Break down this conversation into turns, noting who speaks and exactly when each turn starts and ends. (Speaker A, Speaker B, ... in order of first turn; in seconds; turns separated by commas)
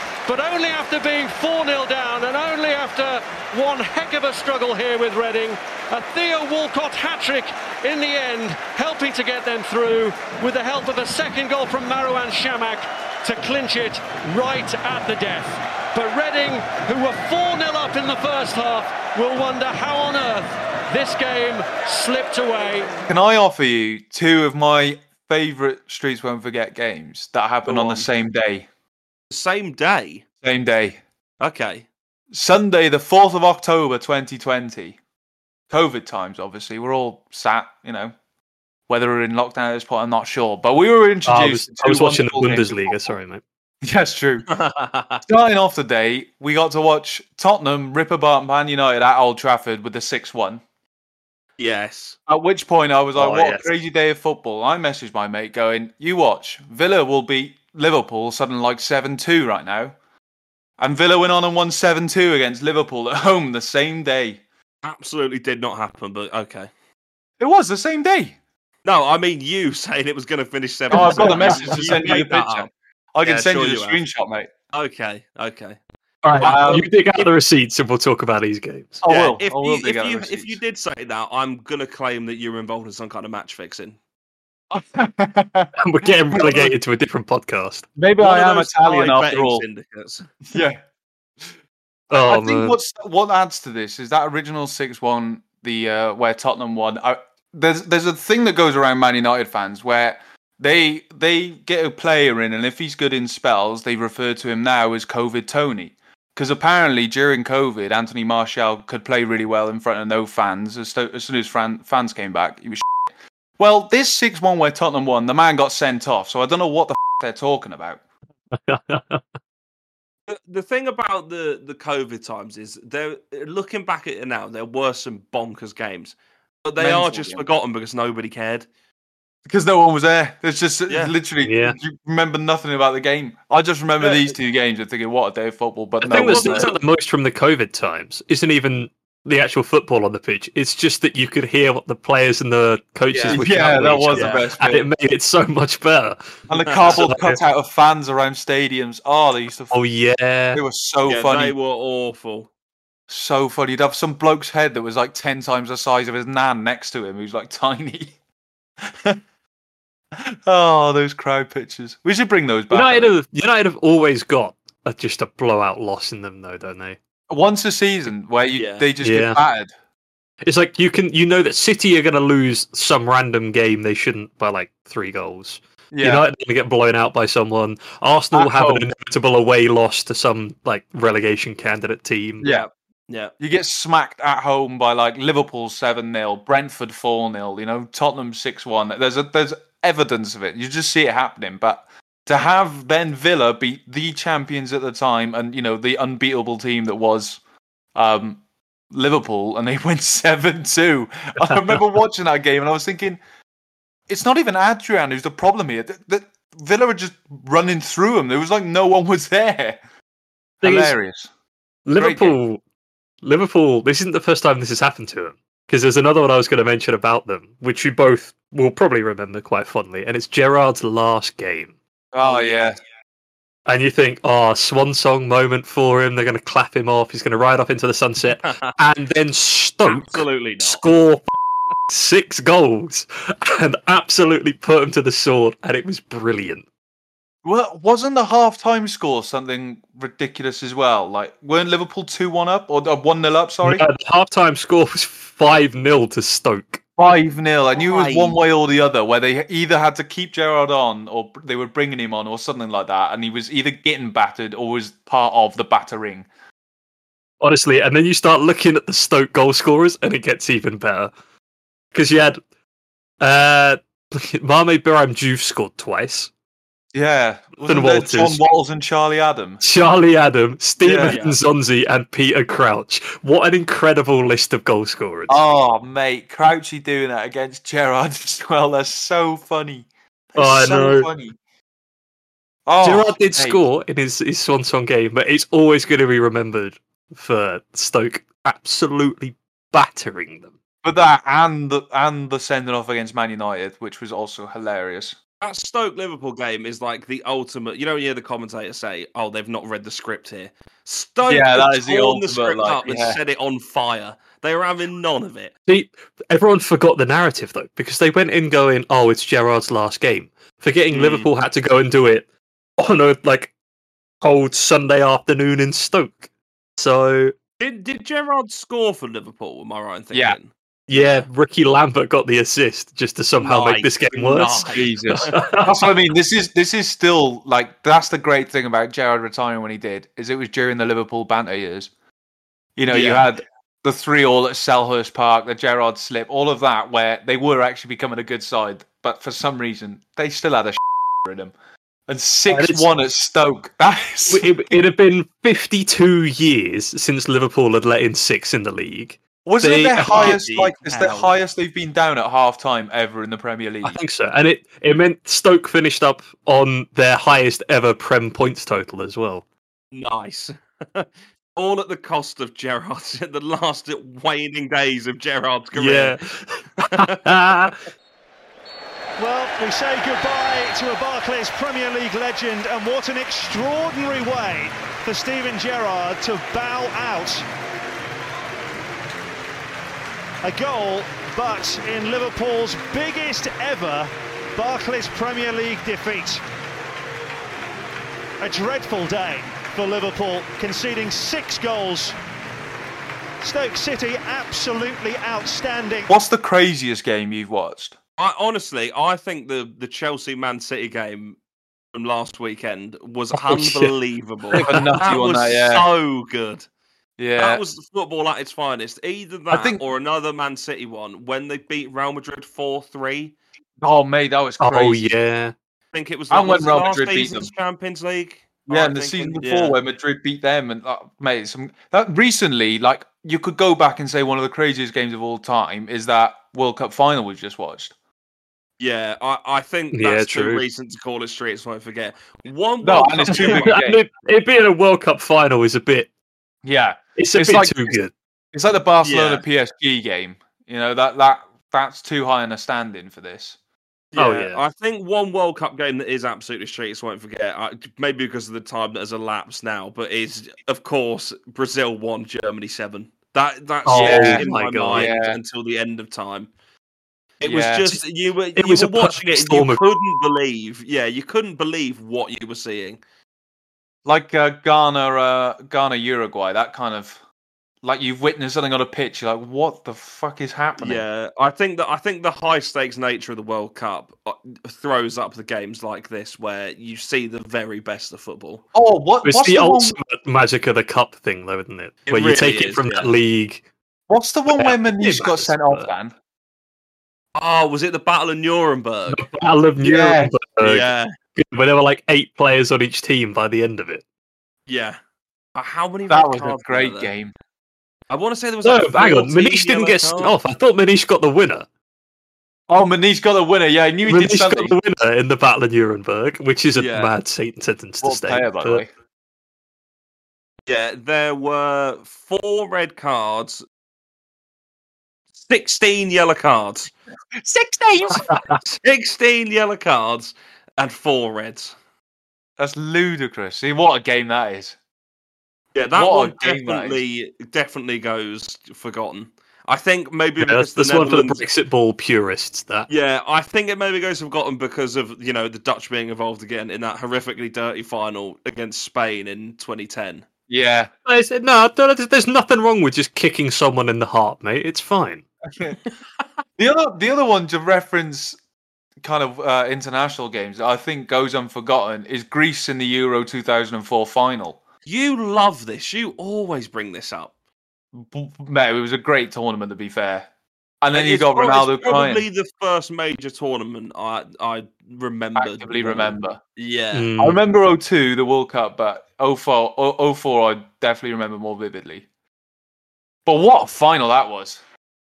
Speaker A: 0.2-22.9, Speaker B: 23.1-28.7, Speaker C: 27.7-28.1, Speaker C: 29.3-30.2, Speaker B: 30.4-31.0, Speaker C: 31.4-31.9, Speaker B: 32.3-35.0, Speaker B: 35.7-38.1, Speaker B: 38.9-43.1, Speaker D: 41.2-43.4, Speaker B: 43.8-44.5, Speaker C: 44.5-45.2, Speaker B: 45.3-50.6, Speaker C: 51.6-52.2, Speaker B: 52.3-59.9, Speaker D: 53.1-53.6, Speaker B: 60.8-64.4, Speaker C: 64.8-66.7, Speaker B: 67.4-68.3, Speaker C: 68.8-72.7, Speaker B: 70.9-74.5, Speaker D: 70.9-72.0, Speaker C: 73.2-74.0, Speaker C: 74.7-75.8, Speaker D: 76.2-79.0, Speaker C: 76.4-76.9, Speaker B: 76.4-76.9, Speaker B: 79.0-80.6, Speaker C: 79.0-84.0, Speaker B: 84.7-86.7, Speaker D: 85.8-87.8, Speaker B: 88.0-89.6, Speaker C: 88.2-90.3, Speaker B: 90.5-90.8, Speaker D: 92.1-92.8, Speaker B: 92.1-113.0, Speaker B: 113.6-118.0, Speaker D: 118.5-119.2, Speaker C: 120.3-128.7, Speaker B: 126.8-127.4, Speaker B: 129.4-136.7, Speaker C: 130.9-131.1, Speaker D: 131.4-131.8, Speaker C: 134.0-134.3, Speaker D: 136.0-146.4, Speaker C: 136.1-136.8, Speaker C: 143.1-143.4, Speaker B: 143.3-144.9, Speaker C: 144.1-144.4, Speaker B: 146.5-149.8, Speaker C: 146.5-147.0, Speaker D: 146.9-147.4, Speaker D: 149.7-150.6, Speaker B: 150.5-151.5, Speaker C: 151.1-152.5, Speaker B: 153.1-158.1, Speaker B: 158.8-159.2, Speaker B: 160.1-163.2, Speaker D: 162.7-167.0, Speaker B: 167.3-169.7, Speaker C: 168.5-168.9, Speaker D: 169.0-169.4, Speaker D: 170.4-182.4, Speaker B: 175.9-176.2, Speaker B: 178.3-178.8, Speaker B: 182.4-182.7, Speaker C: 182.4-183.3, Speaker B: 183.4-197.4, Speaker B: 197.9-203.2, Speaker B: 204.1-209.8, Speaker B: 210.6-211.3, Speaker D: 210.6-210.9, Speaker D: 211.8-212.6, Speaker B: 211.9-212.4, Speaker D: 213.2-221.7, Speaker B: 222.1-222.8, Speaker C: 222.2-222.7, Speaker D: 223.7-231.2, Speaker C: 228.4-228.7, Speaker C: 229.8-230.8, Speaker D: 231.9-236.6, Speaker B: 237.4-243.9, Speaker D: 243.6-246.8, Speaker B: 247.0-256.3, Speaker C: 247.8-248.3, Speaker D: 257.4-261.1, Speaker D: 261.9-262.4, Speaker D: 263.2-266.3, Speaker B: 266.9-269.6, Speaker D: 267.6-268.4, Speaker D: 269.6-275.4, Speaker B: 270.8-271.2, Speaker C: 271.0-271.4, Speaker B: 275.3-281.4, Speaker D: 280.4-281.1, Speaker B: 282.6-283.6, Speaker D: 282.8-290.5, Speaker B: 290.8-295.1, Speaker C: 295.4-305.5, Speaker B: 301.2-303.2, Speaker D: 305.7-312.2, Speaker C: 310.9-311.3, Speaker D: 312.8-313.5, Speaker D: 314.2-317.3, Speaker C: 317.6-320.5, Speaker D: 320.9-325.7, Speaker C: 323.4-325.3, Speaker B: 324.7-331.9, Speaker B: 332.8-341.5, Speaker C: 332.9-333.2, Speaker B: 342.1-344.8, Speaker D: 342.5-342.9, Speaker D: 344.3-350.4, Speaker B: 349.4-354.0, Speaker C: 350.1-351.3, Speaker D: 353.8-359.4, Speaker C: 359.9-366.2, Speaker D: 365.7-367.8, Speaker C: 366.8-367.3, Speaker E: 369.2-377.4, Speaker E: 380.4-386.4, Speaker E: 388.4-392.2, Speaker E: 393.4-396.1, Speaker B: 396.1-397.9, Speaker C: 398.2-401.4, Speaker C: 401.9-406.6, Speaker D: 403.3-403.9, Speaker D: 404.5-404.9, Speaker B: 404.5-405.9, Speaker B: 407.2-407.6, Speaker C: 407.4-413.3, Speaker B: 409.5-409.8, Speaker B: 413.8-415.1, Speaker D: 414.6-415.5, Speaker C: 415.9-419.8, Speaker B: 416.3-417.5, Speaker B: 418.7-427.9, Speaker C: 428.8-433.8, Speaker D: 429.9-430.6, Speaker B: 432.8-434.0, Speaker D: 433.3-436.1, Speaker B: 436.6-438.0, Speaker D: 437.2-438.1, Speaker B: 438.5-443.6, Speaker C: 439.0-439.4, Speaker C: 444.1-456.5, Speaker D: 444.1-444.6, Speaker D: 453.8-455.1, Speaker B: 453.9-455.4, Speaker C: 457.4-463.0, Speaker B: 457.4-457.8, Speaker D: 458.5-459.8, Speaker B: 464.0-467.2, Speaker B: 467.8-471.0, Speaker C: 470.8-478.6, Speaker B: 478.7-480.0, Speaker D: 479.2-483.6, Speaker C: 482.1-483.1, Speaker B: 484.1-486.1, Speaker D: 484.5-485.9, Speaker C: 487.4-489.2, Speaker D: 489.1-494.0, Speaker B: 489.8-490.3, Speaker C: 490.6-491.1, Speaker C: 494.7-495.0, Speaker C: 495.5-497.1, Speaker B: 496.1-497.3, Speaker C: 498.1-500.3, Speaker D: 498.6-501.7, Speaker B: 502.7-504.7, Speaker D: 504.1-508.8, Speaker C: 506.7-507.1, Speaker B: 508.0-508.9, Speaker C: 510.7-513.6, Speaker C: 515.4-516.9, Speaker B: 517.3-518.2, Speaker D: 518.1-518.6, Speaker C: 518.6-521.7, Speaker B: 522.6-524.8, Speaker C: 525.7-531.5, Speaker B: 525.9-527.0, Speaker D: 530.4-532.9, Speaker C: 532.9-540.2, Speaker B: 540.5-540.9, Speaker D: 541.0-545.2, Speaker B: 546.6-548.4, Speaker B: 549.0-554.6, Speaker C: 554.9-557.3, Speaker B: 557.9-560.3, Speaker B: 560.8-562.2, Speaker C: 560.9-567.1, Speaker B: 565.4-566.4, Speaker D: 566.9-567.4, Speaker B: 567.2-572.0, Speaker B: 573.2-574.6